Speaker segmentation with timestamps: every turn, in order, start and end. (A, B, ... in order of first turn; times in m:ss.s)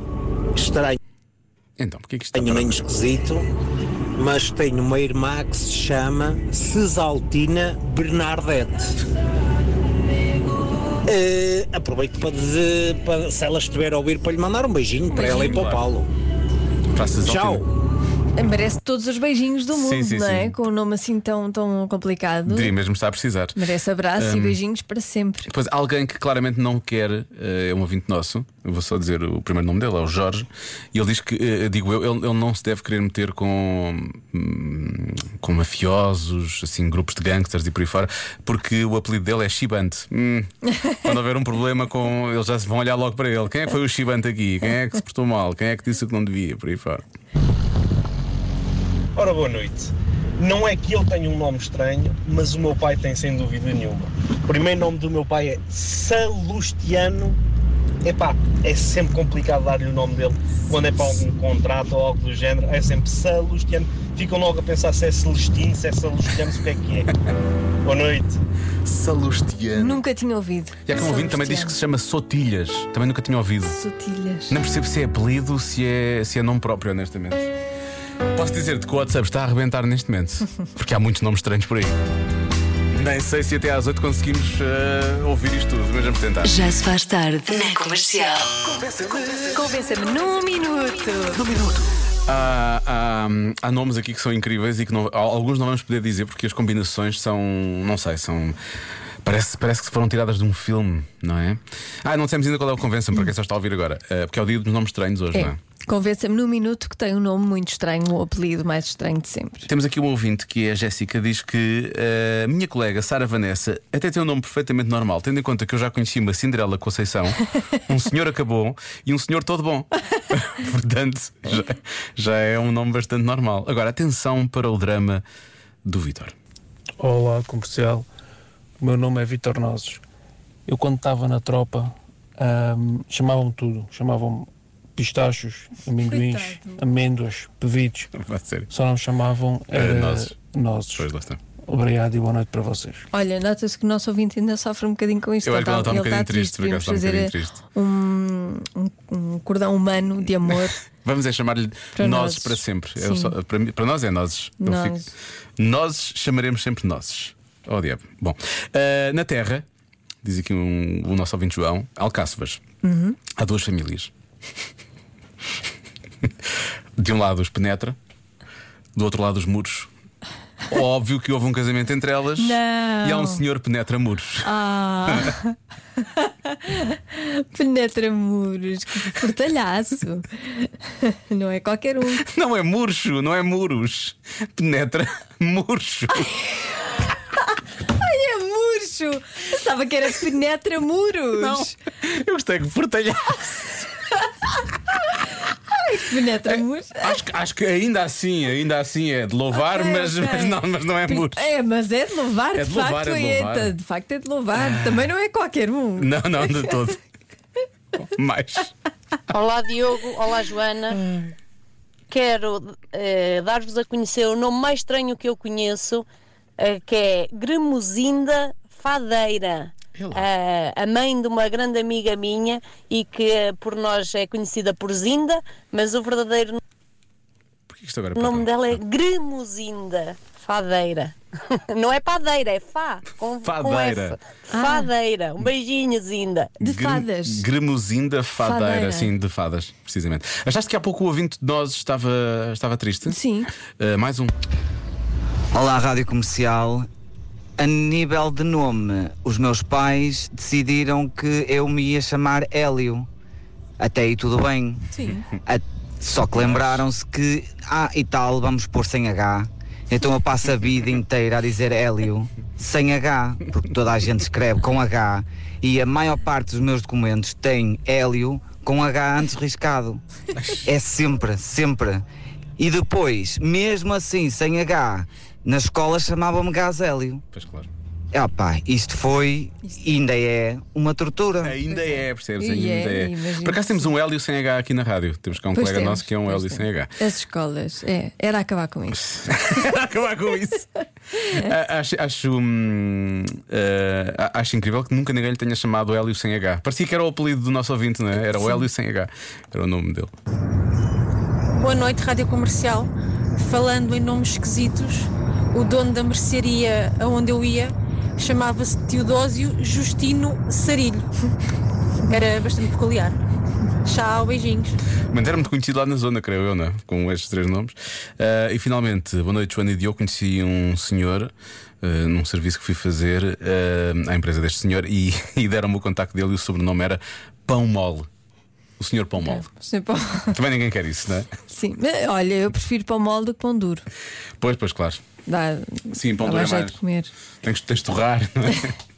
0:00.5-0:01.0 A
0:01.8-0:02.9 B
0:02.3-0:03.4 A
0:04.2-0:09.0 A
0:11.0-0:16.1 A
0:15.1-0:15.7 C
0:15.2-0:15.8 B
0:16.9-0:17.7 B
0:17.2-0:17.6 A
0:18.4-0:22.7 C
0:19.7-0:20.6 B
0:22.5-0:23.6 B
0:23.6-0:25.5 C
0:24.2-0:24.6 B
0:25.5-0:47.0 B
0:40.7-0:41.0 C
0:49.2-0:57.4 D
0:58.0-1:07.1 D
1:07.8-1:08.4 D
1:08.8-1:10.0 B
1:09.7-1:11.7 C
1:10.8-1:13.8 B
1:13.6-1:14.6 C
1:14.5-1:17.5 B
1:18.3-1:22.0 B
1:22.9-1:26.5 B
1:26.4-1:28.6 E
1:28.8-1:29.5 B
1:29.5-1:31.4 C
1:31.3-1:38.6 B
1:39.2-1:45.6 B
1:45.3-1:49.7 C
1:49.6-2:05.2 B
2:05.8-2:06.3 B
2:07.0-2:08.1 F
2:08.8-2:10.0 F
2:10.6-2:18.1 F
2:16.1-2:16.8 C
2:18.1-2:18.7 B
2:18.7-2:21.1 F
2:19.7-2:20.4 B
2:21.0-2:21.4 B
2:21.6-2:23.1 F
2:23.1-2:30.8 C
2:25.4-2:27.6 B
2:31.0-2:35.0 B
2:32.0-2:33.3 C
2:34.6-2:35.1 C
2:35.6-2:39.6 B
2:40.2-2:42.6 B
2:42.8-2:43.2 C
2:43.3-2:44.1 B
2:47.0-2:48.0 B
2:48.9-2:49.9 B
2:50.7-2:54.5 B
2:52.4-2:53.4 C
2:54.4-3:02.2 C
3:02.2-3:06.3 B
3:07.9-3:11.7 C
3:11.4-3:13.9 B
3:15.7-3:17.1 C
3:16.5-3:21.5 B
3:19.5-3:26.7 C
3:22.5-3:23.7 B
3:24.5-3:25.1 B
3:26.0-3:27.0 B
3:28.0-3:28.7 B
3:29.3-3:31.0 G
3:31.0-3:31.3 B
3:32.1-3:36.0 G
3:36.6-3:46.6 G
3:40.0-3:40.3 B
3:47.7-3:48.8 B
3:48.2-3:51.1 G
3:51.7-3:56.5 G
3:53.4-3:54.2 B
3:54.5-3:54.9 C
3:56.6-4:03.2 B
3:56.6-3:57.4 C
3:58.4-3:59.1 C
4:03.0-4:03.5 C
4:03.8-4:04.3 B
4:05.5-4:06.9 H
4:07.6-4:13.1 H
4:13.8-4:14.8 H
4:14.9-4:15.2 C
4:15.4-4:30.0 H
4:16.4-4:16.8 B
4:30.3-4:30.7 B
4:30.6-4:32.0 H
4:32.6-4:37.2 H
4:37.3-4:37.7 B
4:38.1-4:41.6 H
4:41.4-4:46.9 B
4:41.7-4:43.9 C
4:45.5-4:49.0 C
4:48.9-4:50.7 B
4:51.3-5:00.1 B
4:58.4-4:58.7 C
5:01.5-5:11.1 I
5:12.1-5:13.2 I
5:13.8-5:14.8 I
5:15.1-5:28.1 B
5:28.8-5:29.5 B
5:29.2-5:30.4 C
5:30.3-5:31.3 B
5:31.5-5:33.8 C
5:34.4-5:35.0 B
5:35.2-5:37.1 C
5:35.9-5:36.8 B
5:37.4-5:38.7 B